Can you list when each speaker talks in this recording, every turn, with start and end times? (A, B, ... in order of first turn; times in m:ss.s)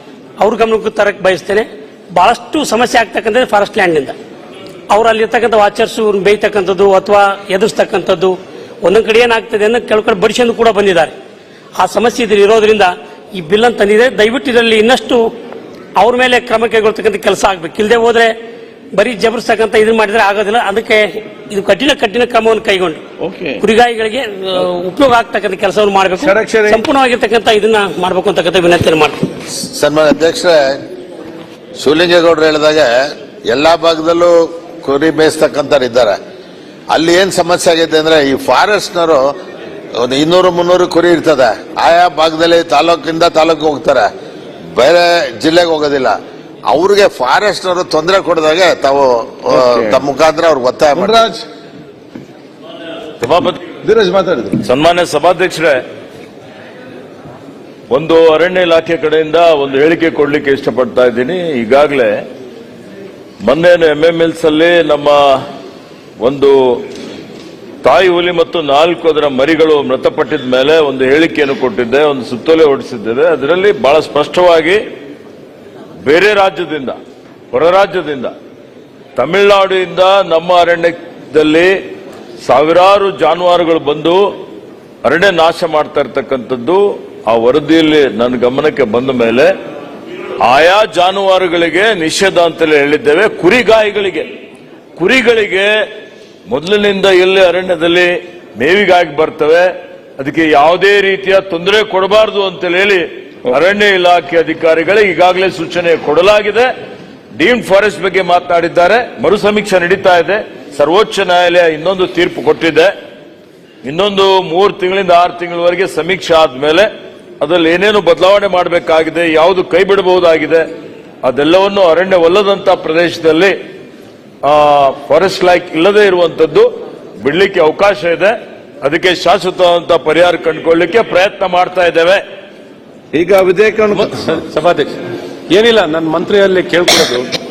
0:00.4-0:04.2 A
0:04.9-0:11.1 A
0:11.8-0:15.3 A
0:16.0-0:18.3 A
0:19.0-0:23.0 A
0:23.2-0:23.6 B
0:23.6-0:29.3 A
0:26.2-0:26.8 B
0:29.6-0:30.8 C
0:31.8-0:36.2 C
0:36.9-0:39.3 C
0:40.0-0:44.1 C
0:44.8-0:46.2 C
0:46.7-0:51.3 C
0:49.5-0:50.0 B
0:51.0-0:51.4 B
0:53.2-0:53.6 D
0:53.8-0:54.6 B
0:54.6-0:55.8 D
0:57.9-1:02.2 D
1:03.4-1:05.2 D
1:06.2-1:06.8 D
1:07.8-1:14.8 D
1:16.1-1:17.0 D
1:17.5-1:18.3 D
1:19.2-1:21.8 D
1:22.4-1:24.3 D
1:25.0-1:29.5 D
1:30.4-1:34.3 D
1:35.0-1:35.7 D
1:36.5-1:46.7 D
1:47.4-1:52.9 D
1:53.8-1:56.9 D
1:57.4-2:00.7 D
2:01.2-2:03.6 D
2:04.4-2:06.7 D
2:07.2-2:12.2 D
2:13.1-2:14.4 B
2:14.6-2:14.9 E
2:15.6-2:17.2 E